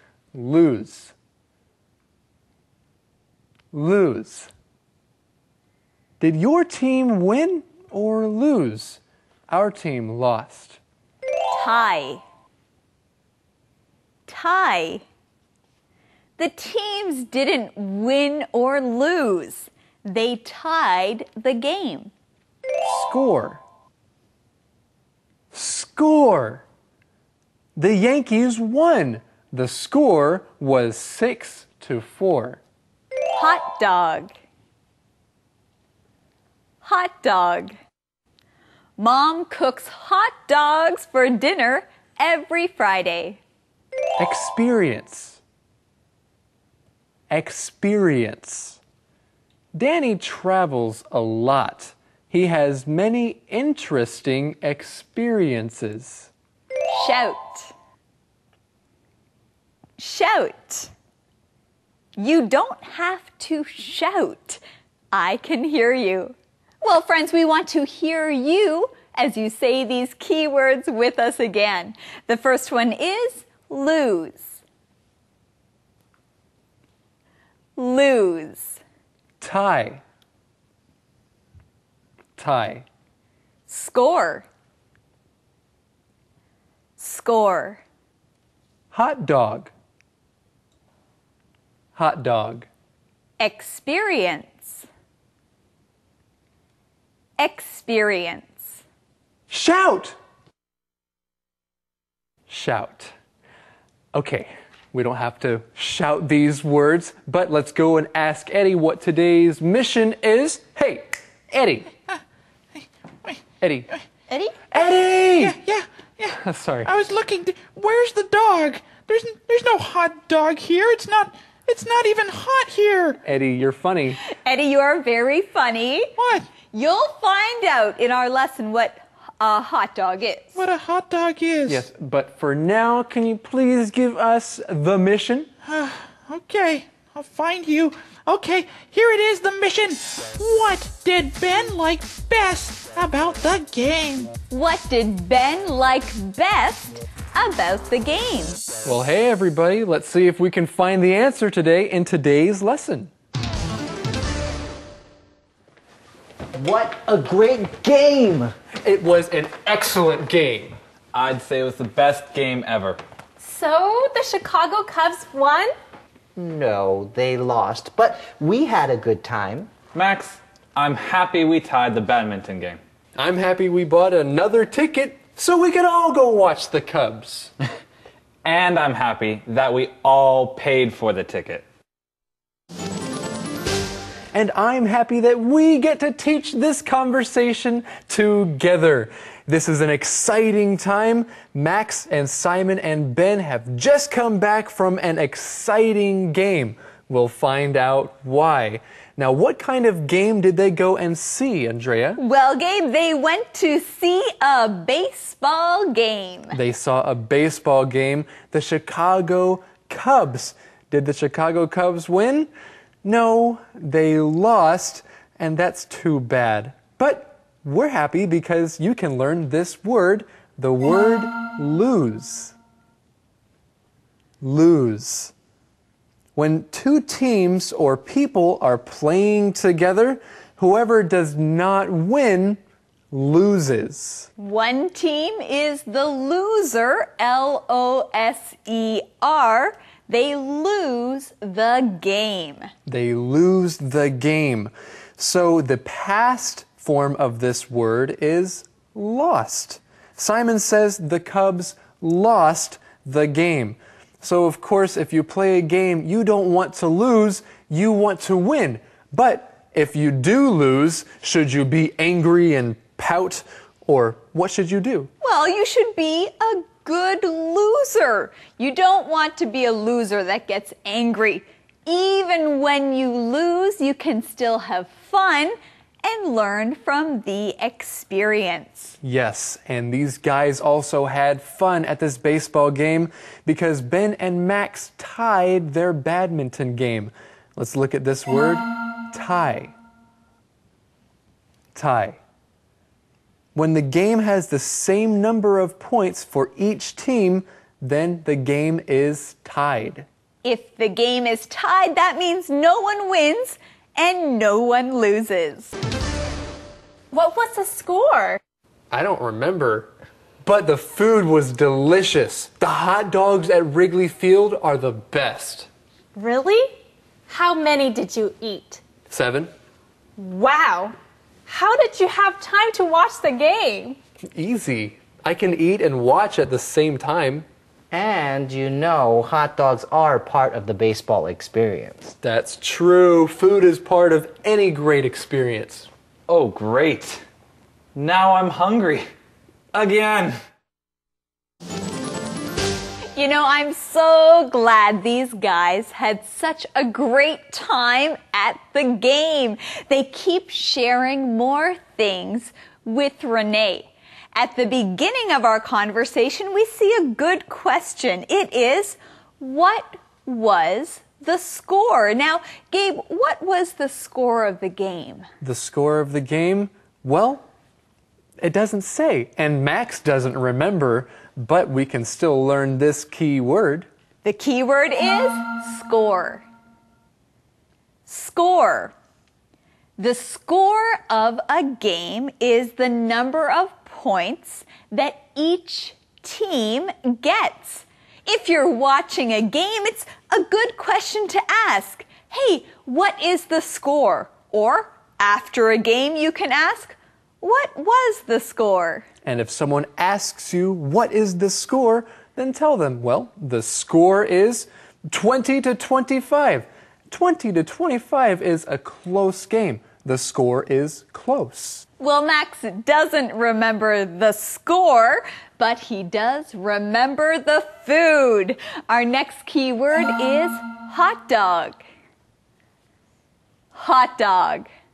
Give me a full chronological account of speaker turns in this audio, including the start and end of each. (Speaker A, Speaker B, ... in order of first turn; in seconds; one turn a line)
Speaker A: 0.3-1.1
Speaker A: 3.7-4.5
Speaker A: 6.2-10.8
Speaker B: 11.5-12.2
Speaker B: 14.3-15.0
Speaker B: 16.4-22.1
Speaker A: 22.8-23.6
Speaker A: 25.5-26.6
Speaker A: 27.8-32.6
Speaker B: 33.4-34.3
Speaker B: 36.8-37.7
Speaker B: 39.0-43.4
Speaker A: 44.2-45.4
Speaker A: 47.3-48.8
Speaker A: 49.7-56.3
Speaker B: 56.9-57.7
Speaker B: 60.0-60.9
Speaker B: 62.2-64.6
Speaker B: 65.1-74.6
Speaker B: 77.8-78.8
Speaker A: 79.4-80.0
Speaker A: 82.4-82.8
Speaker B: 83.7-84.5
Speaker B: 87.0-87.8
Speaker A: 88.9-89.7
Speaker A: 92.0-92.7
Speaker B: 93.4-94.9
Speaker B: 97.4-98.8
Speaker A: 99.5-100.2
Speaker A: 102.5-103.1
Speaker A: 104.1-111.9
Speaker A: 113.6-113.9
Speaker B: 114.3-114.5
Speaker A: 114.7-115.6
Speaker C: 115.5-116.3
Speaker A: 116.3-116.9
Speaker C: 116.9-123.1
Speaker A: 123.2-124.2
Speaker B: 124.2-126.1
Speaker C: 126.2-126.5
Speaker B: 126.7-130.6
Speaker C: 130.6-131.8
Speaker A: 131.7-135.5
Speaker C: 135.7-144.3
Speaker B: 144.5-148.6
Speaker A: 148.8-153.1
Speaker D: 156.6-158.5
Speaker A: 158.8-160.8
Speaker E: 161.1-163.0
Speaker F: 163.4-165.7
Speaker D: 166.4-169.7
Speaker E: 169.9-172.8
Speaker A: 173.2-177.5
Speaker E: 178.4-181.6
Speaker A: 184.3-202.2
Speaker B: 202.2-206.6
Speaker A: 206.5-212.5
Speaker A: 213.0-222.6
Speaker A: 224.4-225.3
Speaker A: 226.3-234.3
Speaker B: 234.4-242.7
Speaker A: 242.9-265.1
Speaker B: 265.2-278.9
Speaker A: 279.0-289.7
Speaker A: 291.8-292.2
Speaker A: 293.6-300.1
Speaker B: 300.4-305.8
Speaker F: 307.1-308.4
Speaker A: 308.9-309.9
Speaker A: 310.4-315.7
Speaker F: 316.1-316.7
Speaker F: 317.3-318.8
Speaker A: 319.1-319.5
Speaker F: 320.2-320.9
Speaker F: 321.5-324.0
Speaker A: 324.3-327.4
Speaker D: 327.9-332.1
Speaker A: 332.2-335.9
Speaker E: 336.3-337.2
Speaker E: 337.9-339.0
Speaker E: 339.7-340.3
Speaker B: 343.1-365.3
Speaker A: 365.4-367.4
Speaker A: 368.4-373.9
Speaker B: 374.2-376.4
Speaker B: 378.1-378.9
Speaker B: 380.0-399.1
Speaker A: 399.2-411.9
Speaker B: 412.0-421.8
Speaker B: 423.7-424.7